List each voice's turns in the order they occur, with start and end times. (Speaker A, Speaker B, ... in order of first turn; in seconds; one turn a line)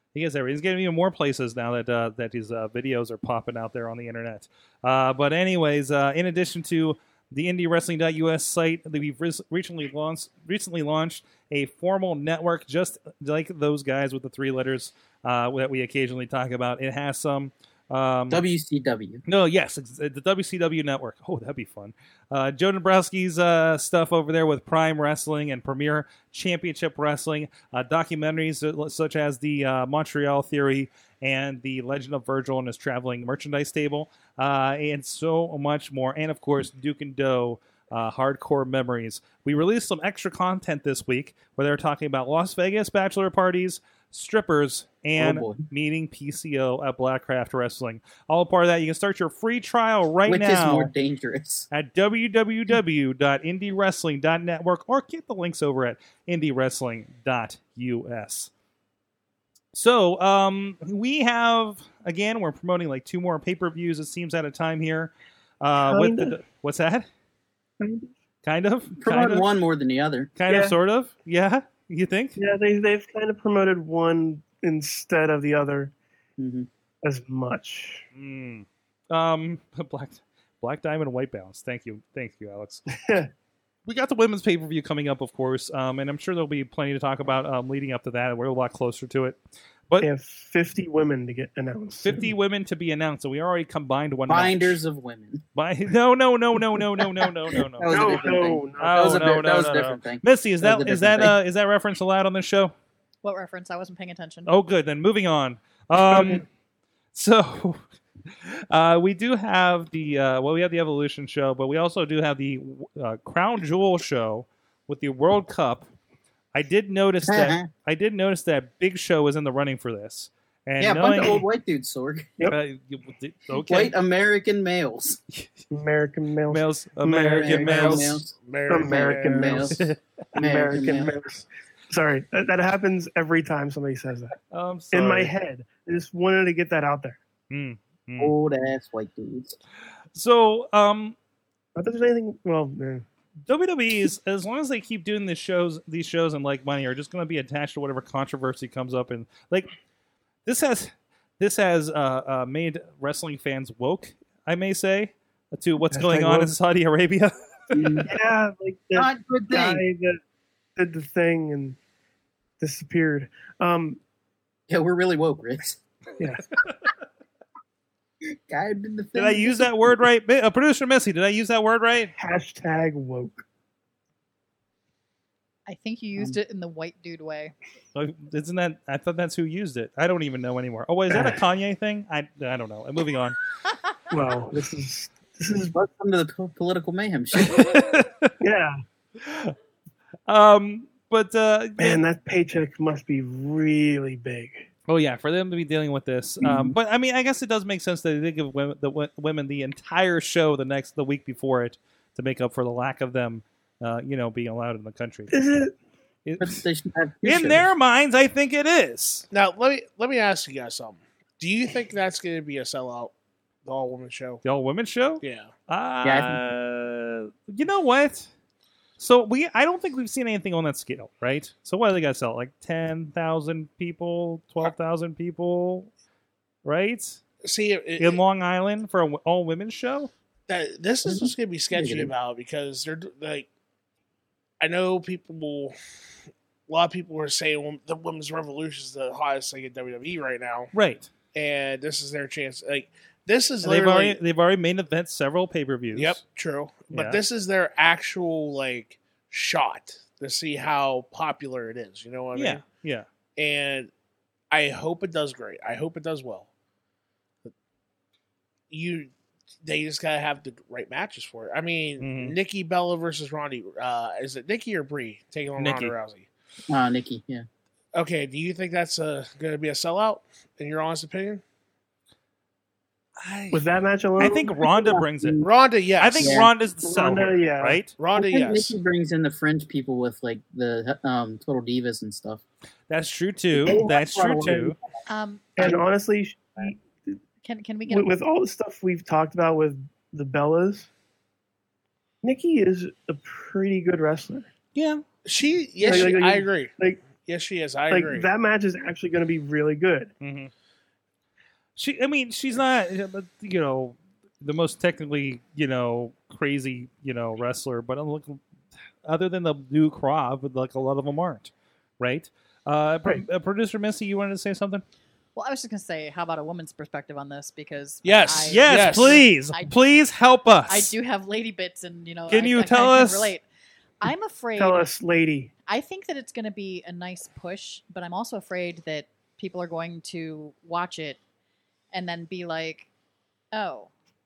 Speaker A: 0.1-18.4
Speaker B: 18.3-19.2
Speaker A: 19.3-50.9
Speaker B: 45.2-45.6
Speaker B: 50.3-51.7
Speaker A: 51.7-58.5
Speaker A: 59.7-67.1
Speaker C: 65.8-66.4
Speaker C: 67.8-68.1
Speaker A: 68.4-69.5
Speaker B: 69.0-70.3
Speaker A: 70.4-72.4
Speaker C: 70.5-70.8
Speaker C: 72.4-75.9
Speaker B: 76.4-76.7
Speaker C: 77.0-78.1
Speaker A: 78.2-82.9
Speaker C: 82.9-83.3
Speaker A: 83.9-89.4
Speaker C: 90.0-92.3
Speaker A: 92.0-94.8
Speaker B: 94.3-95.4
Speaker A: 95.5-98.2
Speaker B: 97.6-101.3
Speaker C: 97.9-99.1
Speaker A: 98.8-102.7
Speaker D: 103.2-104.5
Speaker A: 104.5-106.5
Speaker A: 107.1-107.8
Speaker A: 108.4-115.9
Speaker A: 116.5-121.4
Speaker B: 117.3-117.7
Speaker B: 120.8-122.3
Speaker A: 122.5-124.0
Speaker B: 123.5-125.2
Speaker C: 125.7-127.7
Speaker A: 126.5-128.2
Speaker B: 127.3-129.8
Speaker E: 127.7-129.7
Speaker C: 128.7-129.8
Speaker B: 130.4-131.1
Speaker C: 130.4-134.3
Speaker A: 134.5-135.3
Speaker C: 134.9-137.2
Speaker A: 137.5-138.3
Speaker B: 138.2-139.6
Speaker A: 140.2-141.2
Speaker C: 141.8-143.1
Speaker A: 143.5-149.7
Speaker A: 150.4-157.3
Speaker C: 155.9-156.5
Speaker B: 157.7-158.1
Speaker C: 158.0-160.2
Speaker B: 158.9-159.8
Speaker C: 160.8-161.8
Speaker C: 162.6-164.0
Speaker B: 164.7-165.8
Speaker C: 166.2-166.4
Speaker B: 168.2-169.9
Speaker A: 169.2-172.1
Speaker C: 172.2-173.4
Speaker D: 175.7-177.5
Speaker A: 177.9-183.4
Speaker C: 181.1-181.4
Speaker C: 184.1-185.7
Speaker B: 185.7-187.7
Speaker A: 187.4-188.3
Speaker C: 188.4-188.8
Speaker A: 189.2-189.6
Speaker A: 190.3-192.0
Speaker C: 191.8-194.7
Speaker A: 194.9-205.3
Speaker C: 205.3-205.7
Speaker A: 206.2-206.6
Speaker B: 206.4-207.7
Speaker A: 207.2-209.3
Speaker E: 209.3-213.1
Speaker E: 213.7-214.4
Speaker A: 214.4-218.3
Speaker E: 215.2-215.5
Speaker B: 216.0-216.4
Speaker A: 219.0-225.9
Speaker A: 226.6-227.2
Speaker E: 227.4-228.2
Speaker A: 228.0-230.1
Speaker E: 230.5-233.5
Speaker B: 231.1-232.1
Speaker E: 234.6-235.8
Speaker E: 236.7-240.7
Speaker A: 240.7-241.1
Speaker E: 241.3-244.2
Speaker A: 243.6-246.2
Speaker E: 245.9-252.6
Speaker A: 246.9-247.2
Speaker A: 252.3-253.1
Speaker E: 253.4-253.9
Speaker E: 254.5-256.5
Speaker E: 258.7-259.1
Speaker E: 259.6-266.3
Speaker A: 262.0-262.4
Speaker A: 265.6-265.9
Speaker B: 266.7-267.5
Speaker E: 267.9-271.4
Speaker A: 273.2-273.6
Speaker C: 273.5-274.4
Speaker A: 274.2-275.4
Speaker B: 274.4-275.5
Speaker E: 275.4-276.5
Speaker A: 276.0-277.9
Speaker B: 276.2-276.5
Speaker C: 276.8-277.9
Speaker E: 278.0-278.8
Speaker B: 278.1-282.4
Speaker A: 282.9-284.8
Speaker B: 283.6-284.8
Speaker D: 285.1-285.7
Speaker C: 285.6-287.2
Speaker D: 287.4-288.1
Speaker C: 287.9-290.9
Speaker C: 292.2-294.5
Speaker A: 294.8-295.0
Speaker E: 295.2-298.3
Speaker C: 295.8-297.1
Speaker C: 297.9-300.1
Speaker A: 300.2-300.5
Speaker A: 301.8-308.4
Speaker A: 309.0-314.8
Speaker D: 315.4-320.0
Speaker E: 318.0-319.2
Speaker A: 318.5-320.9
Speaker D: 320.7-323.4
Speaker A: 322.3-323.3
Speaker D: 324.0-324.9
Speaker C: 324.6-325.5
Speaker D: 325.7-331.2
Speaker D: 331.9-332.9
Speaker D: 333.5-333.9